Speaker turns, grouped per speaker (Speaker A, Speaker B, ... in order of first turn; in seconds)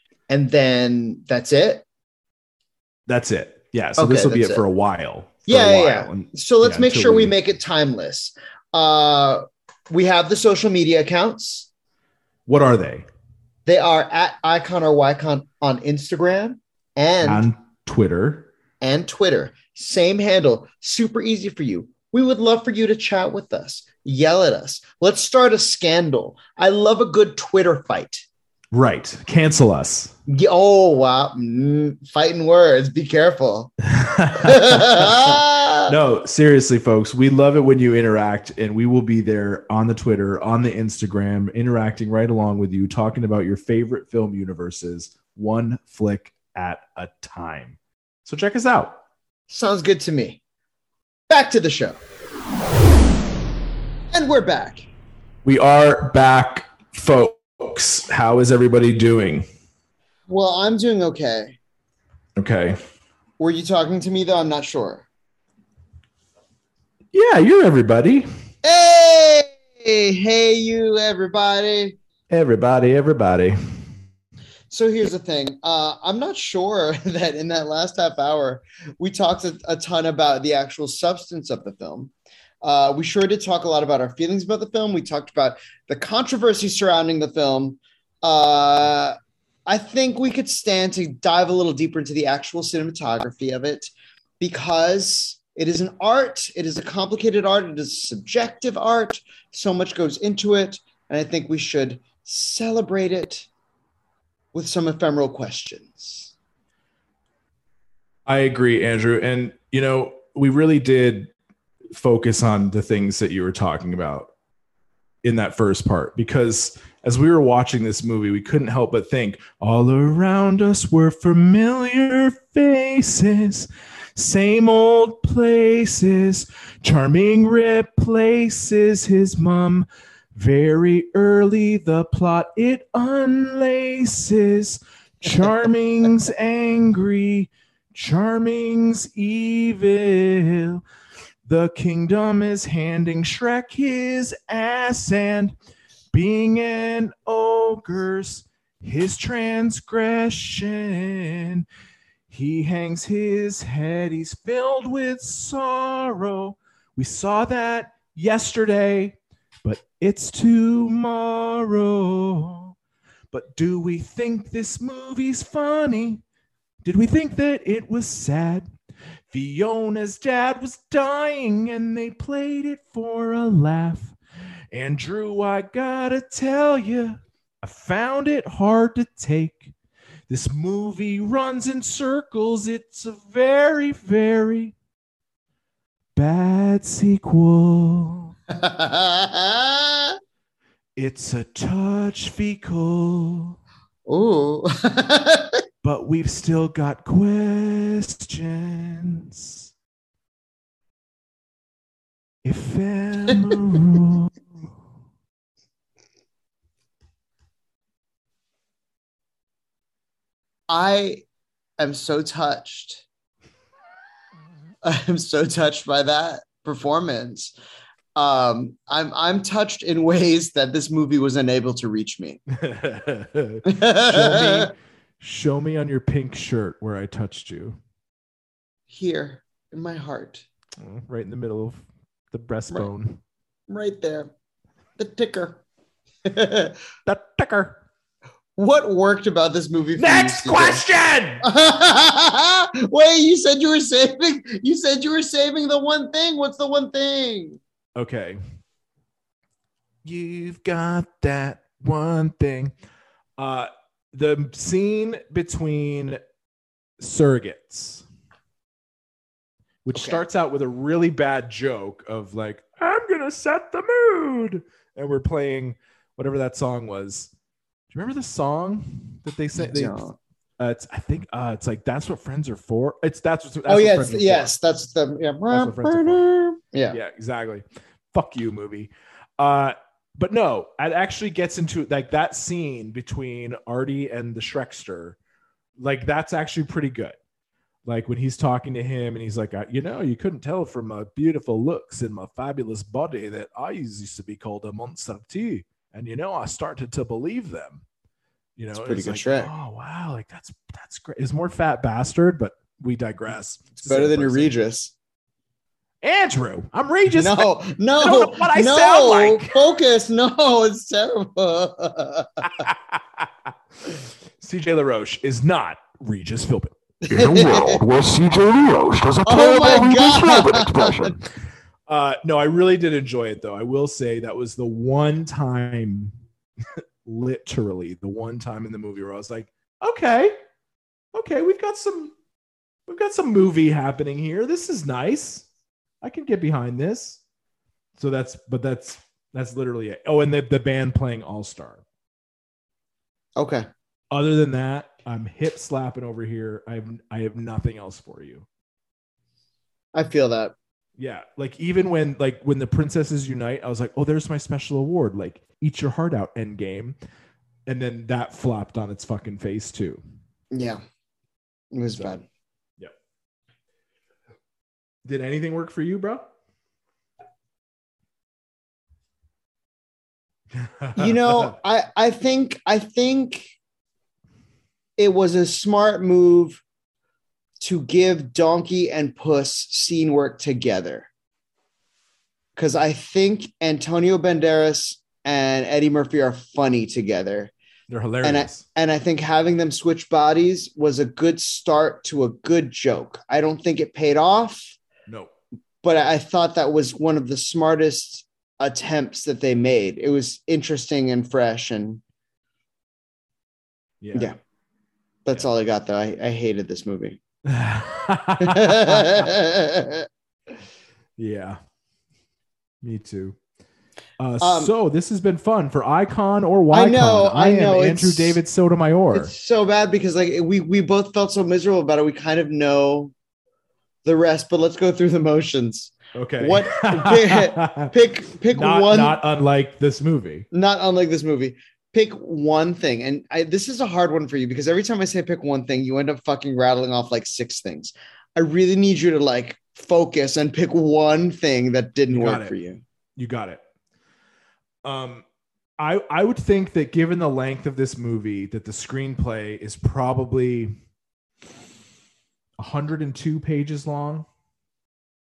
Speaker A: 0.3-1.8, 4.0-4.6, 5.5-11.7, 13.7-17.5, 18.8-28.2, 30.3-33.7, 34.4-35.9, 49.5-50.4, 51.3-52.0, 54.1-54.8, 60.3-61.6, 63.4-65.1, 68.6-72.0, 74.7-82.1, 82.6-103.5, 104.5-106.3, 188.5-190.2, 194.1-195.6, 210.7-211.2, 211.8-213.0, 214.8-217.5, 218.2-222.4, 223.6-224.7, 228.9-230.4, 233.7-234.3, 235.0-235.6, 236.2-236.8, 238.6-240.8, 241.4-247.6, 259.9-260.2, 269.6-270.1, 273.7-277.0, 298.8-299.5, 303.9-304.9, 307.1-312.6, 317.0-317.8, 319.2-321.1, 343.4-343.7, 349.9-350.5, 360.5-360.8, 361.7-362.2, 370.9-373.5, 375.0-376.6, 377.6-381.1, 382.6-387.5, 388.2-394.8, 395.8-402.0, 405.2-407.2, 408.4-410.1, 414.4-414.7, 416.7-418.4, 419.1-423.1, 424.0-429.2, 430.5-442.8
Speaker B: 3.1-7.3, 12.5-13.1, 17.2-18.5, 28.7-30.1, 33.9-49.0, 55.4-59.4, 62.4-62.8, 67.1-68.2, 72.3-73.5, 108.2-111.3, 111.9-114.3, 115.2-140.8, 141.4-145.5, 146.1-151.7, 152.3-162.7, 163.3-166.2, 166.8-168.7, 169.3-174.2, 174.7-179.7, 180.3-184.7, 186.2-188.3, 190.9-193.6, 195.8-199.7, 202.4-204.3, 222.5-227.8, 230.8-233.2, 237.1-237.8, 240.0-241.4, 247.9-248.4, 250.0-252.7, 253.4-256.2, 257.0-258.0, 259.8-267.3, 267.9-270.0, 270.6-274.5, 275.5-276.2, 276.9-285.2, 285.8-287.2, 287.9-297.8, 298.6-304.5, 306.0-309.6, 312.6-313.3, 314.4-316.8, 321.9-326.1, 327.0-330.4, 331.1-332.1, 332.9-335.5, 336.0-337.2, 337.9-341.8, 344.1-348.4, 351.0-357.0, 357.7-360.0, 365.0-366.3, 370.5-371.5, 387.9-388.6, 395.1-395.3, 404.0-404.3, 407.4-409.3, 411.2-411.6, 412.8-413.4, 414.2-419.3, 426.1-427.9, 428.5-430.5, 442.1-442.5, 443.1-443.6, 444.8-445.2, 445.8-450.7, 452.6-454.2
Speaker C: 317.1-321.2